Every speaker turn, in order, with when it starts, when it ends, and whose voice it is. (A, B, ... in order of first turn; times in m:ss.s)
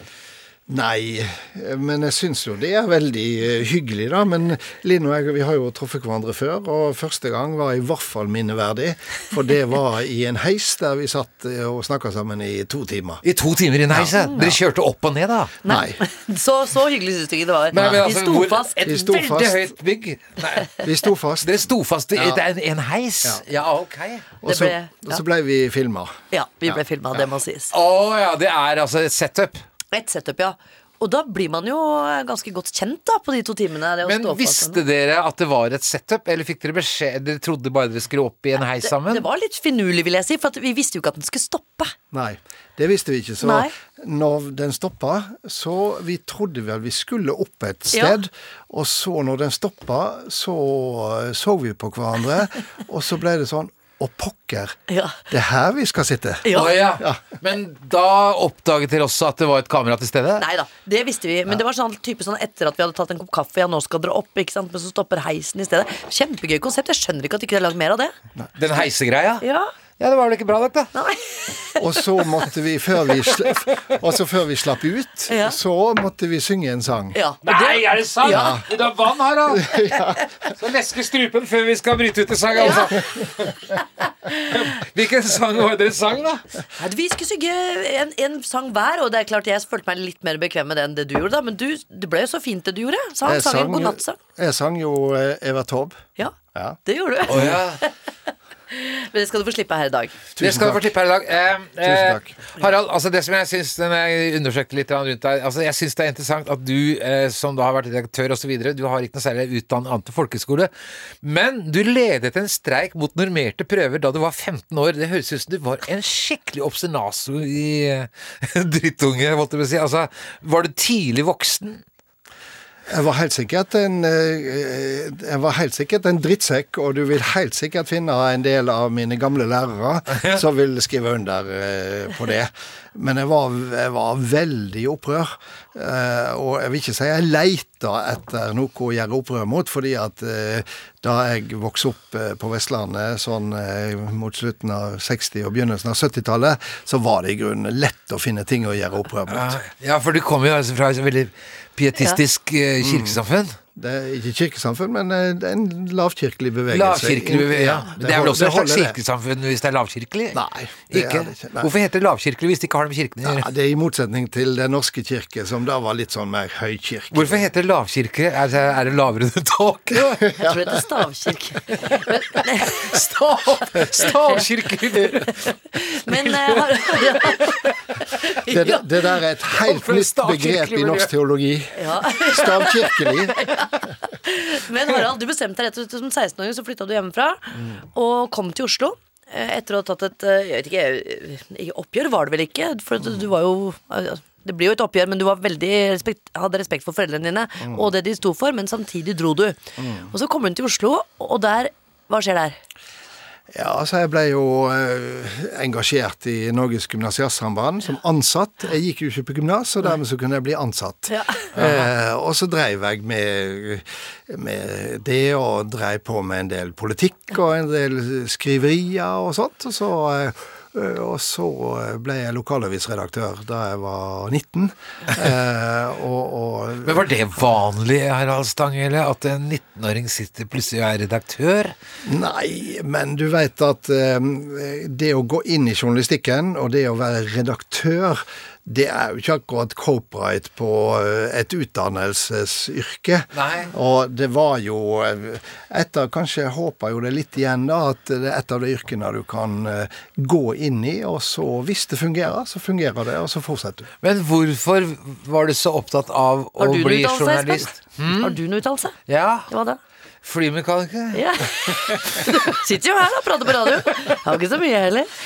0:00.7-0:13.2 A
0:13.2-0:15.6 B
0:14.2-0:14.5 C
0:15.6-0:18.7 C
0:15.6-0:16.0 A
0:17.7-0:20.8 B
0:17.7-0:18.1 A
0:18.8-0:19.7 A
0:20.8-0:21.6 A
0:21.4-0:24.2 B
0:22.2-0:22.4 A
0:24.4-0:26.2 A
0:24.4-0:25.2 C
0:26.3-0:27.7 C
0:27.7-0:29.6 B
0:29.9-0:34.8 C
0:34.0-0:39.2 B
0:38.8-0:41.9 C
0:42.1-0:54.8 A
0:43.4-0:43.7 C
0:47.9-0:48.2 C
0:54.9-0:55.2 C
0:55.3-0:57.4 A
0:56.4-0:56.8 C
0:56.5-1:00.4 B
1:00.4-1:08.1 C
1:08.6-1:09.4 B
1:09.4-1:09.7 C
1:10.0-1:10.9 B
1:10.9-1:11.8 C
1:11.8-1:17.2 A
1:15.3-1:15.6 C
1:17.1-1:18.6 C
1:17.4-1:26.4 B
1:18.2-1:18.6 A
1:19.4-1:20.2 A
1:22.5-1:22.9 C
1:26.8-1:34.2 C
1:33.2-1:36.0 A
1:36.2-1:37.9 C
1:37.3-1:37.8 B
1:38.7-1:40.1 C
1:40.4-1:40.9 A
1:40.4-1:50.7 B
1:41.8-1:42.4 A
1:51.2-2:01.8 B
2:02.9-2:29.6 A
2:29.3-2:33.6 B
2:32.8-2:33.2 A
2:33.7-2:39.0 A
2:36.7-2:40.4 B
2:40.3-2:41.7 A
2:40.9-2:43.5 B
2:43.2-2:47.5 A
2:47.1-2:50.3 B
2:50.3-2:50.8 A
2:50.3-2:53.0 C
2:52.8-2:57.7 B
2:54.0-2:54.4 C
2:55.4-2:58.8 C
2:58.5-3:03.4 A
2:59.5-3:01.1 B
3:01.8-3:22.6 C
3:19.8-3:20.1 A
3:23.5-3:47.1 A
3:31.1-3:31.5 C
3:31.5-3:31.9 B
3:46.8-3:51.7 B
3:52.0-4:13.9 A
4:03.3-4:03.7 B
4:14.0-4:18.4 B
4:16.6-4:19.0 C
4:19.1-4:19.5 B
4:19.5-4:19.8 C
4:20.2-4:22.5 B
4:21.1-4:25.1 C